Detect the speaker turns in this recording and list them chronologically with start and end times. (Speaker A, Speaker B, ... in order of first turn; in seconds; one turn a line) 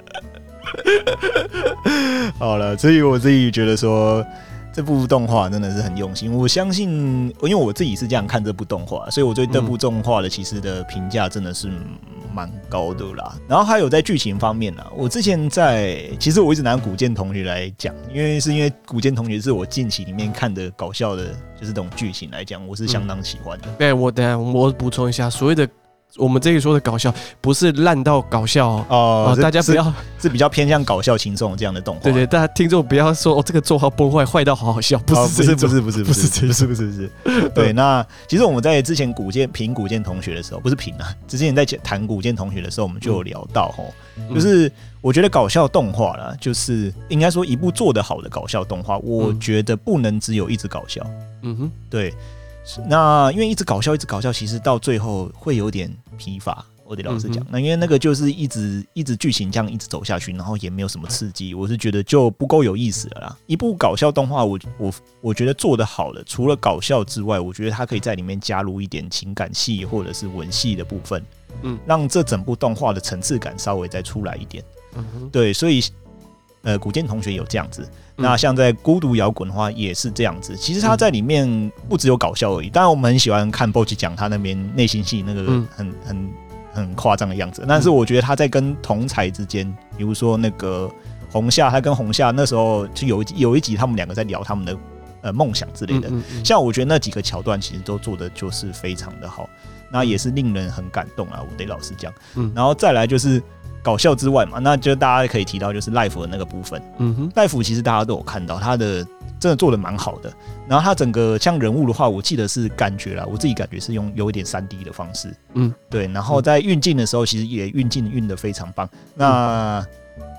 Speaker A: 0.9-23.8
Speaker B: 9.5-9.8
Speaker B: 23.8-30.1
Speaker A: 28.9-32.3
Speaker B: 32.0-36.7
Speaker A: 35.1-51.1
Speaker B: 37.2-37.7
Speaker B: 51.4-51.7
Speaker A: 51.9-71.3
Speaker B: 57.1-57.5
Speaker A: 71.8-74.6
Speaker B: 75.0-75.3
Speaker A: 75.3-75.9
Speaker A: 76.6-115.4
Speaker B: 95.9-96.5
Speaker B: 107.0-107.3
Speaker A: 115.9-119.9